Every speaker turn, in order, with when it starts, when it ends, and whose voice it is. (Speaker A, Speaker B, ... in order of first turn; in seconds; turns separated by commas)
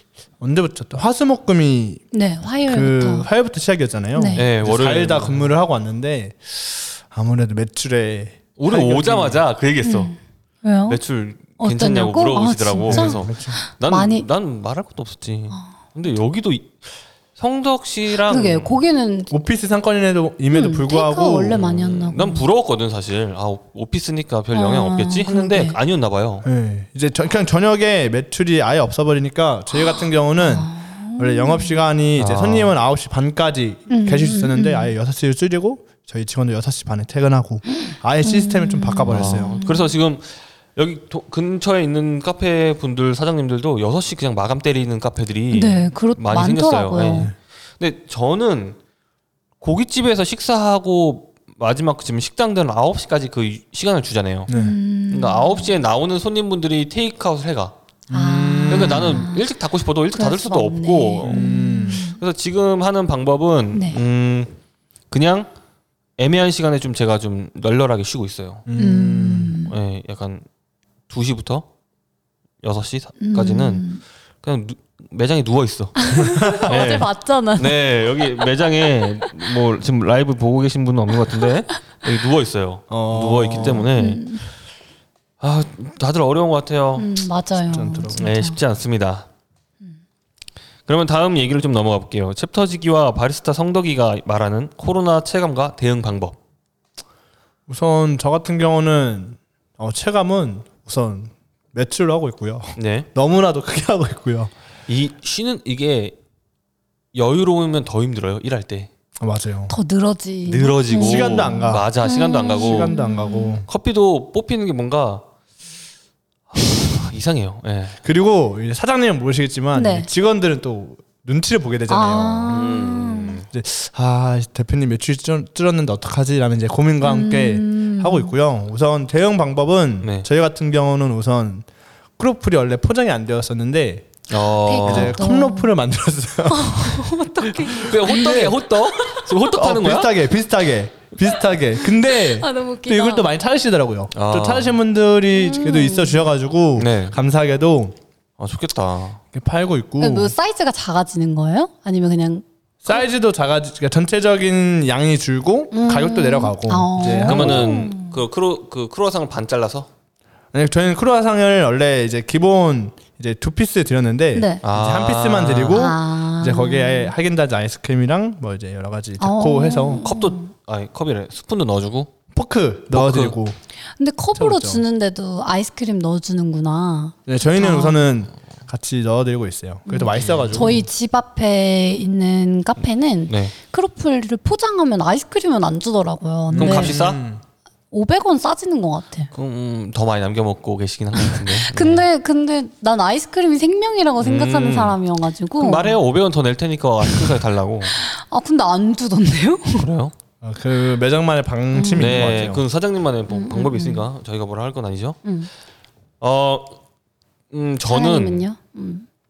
Speaker A: 0.4-2.0, Speaker B: 2.1-3.3, Speaker A: 2.6-9.4, Speaker B: 4.2-4.5, Speaker C: 4.3-5.5, Speaker C: 8.6-10.2, Speaker B: 9.8-11.0, Speaker C: 10.9-18.8, Speaker B: 11.6-14.3, Speaker A: 12.9-13.6, Speaker B: 18.3-19.3, Speaker A: 19.3-21.6, Speaker B: 20.5-22.5, Speaker C: 21.5-26.5, Speaker B: 24.5-25.8, Speaker A: 26.4-39.5, Speaker B: 30.4-31.8, Speaker C: 32.2-32.7, Speaker B: 33.9-34.9, Speaker B: 37.8-39.9, Speaker C: 39.1-48.8, Speaker B: 45.5-47.3, Speaker C: 49.6-54.5, Speaker A: 54.5-54.8, Speaker B: 54.5-55.7, Speaker C: 55.1-57.7, Speaker A: 58.1-59.3, Speaker B: 58.1-59.4, Speaker C: 58.7-64.5, Speaker B: 60.1-62.2, Speaker A: 61.2-62.0, Speaker B: 63.7-64.0, Speaker C: 65.1-65.5, Speaker C: 66.2-68.7, Speaker A: 68.7-69.5, Speaker B: 68.8-69.7, Speaker C: 69.6-70.5, Speaker C: 71.1-71.7, Speaker C: 72.6-73.9, Speaker B: 73.2-74.0, Speaker C: 74.4-84.2, Speaker B: 76.0-77.8, Speaker A: 76.3-76.9, Speaker A: 82.9-83.9, Speaker B: 83.6-84.5, Speaker C: 85.4-87.1, Speaker B: 87.0-88.6, Speaker A: 87.7-88.2, Speaker C: 88.2-89.3, Speaker C: 90.9-96.4, Speaker A: 97.7-104.5, Speaker C: 102.8-103.1, Speaker C: 104.9-106.2, Speaker C: 107.1-108.9, Speaker A: 109.2-109.7, Speaker B: 109.7-113.6, Speaker C: 110.5-113.0, Speaker A: 110.9-111.9, Speaker A: 112.5-113.7, Speaker C: 113.7-115.2, Speaker C: 116.5-118.0, Speaker A: 118.0-122.8, Speaker B: 119.7-120.1, Speaker B: 121.9-123.4, Speaker C: 122.5-123.5, Speaker A: 123.5-131.7, Speaker B: 127.0-128.3, Speaker A: 132.2-134.1, Speaker C: 134.3-135.2, Speaker B: 134.6-135.7, Speaker A: 134.8-138.6, Speaker B: 136.5-139.5, Speaker C: 137.6-140.1, Speaker A: 139.5-147.9, Speaker B: 142.0-143.3, Speaker C: 144.1-144.8, Speaker B: 145.4-146.2, Speaker C: 146.8-147.2, Speaker C: 148.4-149.2, Speaker A: 149.3-150.3, Speaker B: 150.0-153.1, Speaker A: 152.8-157.8, Speaker B: 155.7-158.2, Speaker C: 157.0-159.9, Speaker A: 160.5-170.1, Speaker B: 164.3-164.6, Speaker C: 164.6-165.9, Speaker B: 165.7-167.1, Speaker B: 169.2-170.5, Speaker C: 170.0-172.1, Speaker A: 172.3-173.6, Speaker C: 172.9-173.4, Speaker B: 174.0-178.1, Speaker A: 174.4-174.8, Speaker A: 177.3-180.9, Speaker B: 179.9-187.0, Speaker C: 180.2-180.8, Speaker C: 183.3-183.5, Speaker A: 186.5-187.4, Speaker C: 186.6-187.2, Speaker B: 187.9-189.3, Speaker C: 189.3-192.1, Speaker B: 191.2-196.0, Speaker C: 194.2-195.0, Speaker C: 195.6-198.0, Speaker B: 197.0-197.4, Speaker B: 197.9-199.9, Speaker C: 199.8-200.1, Speaker A: 200.4-202.6, Speaker B: 201.7-202.3, Speaker C: 202.0-205.2, Speaker B: 203.3-204.1, Speaker B: 205.2-205.5, Speaker C: 206.2-206.8, Speaker C: 207.5-208.4, Speaker B: 207.8-209.1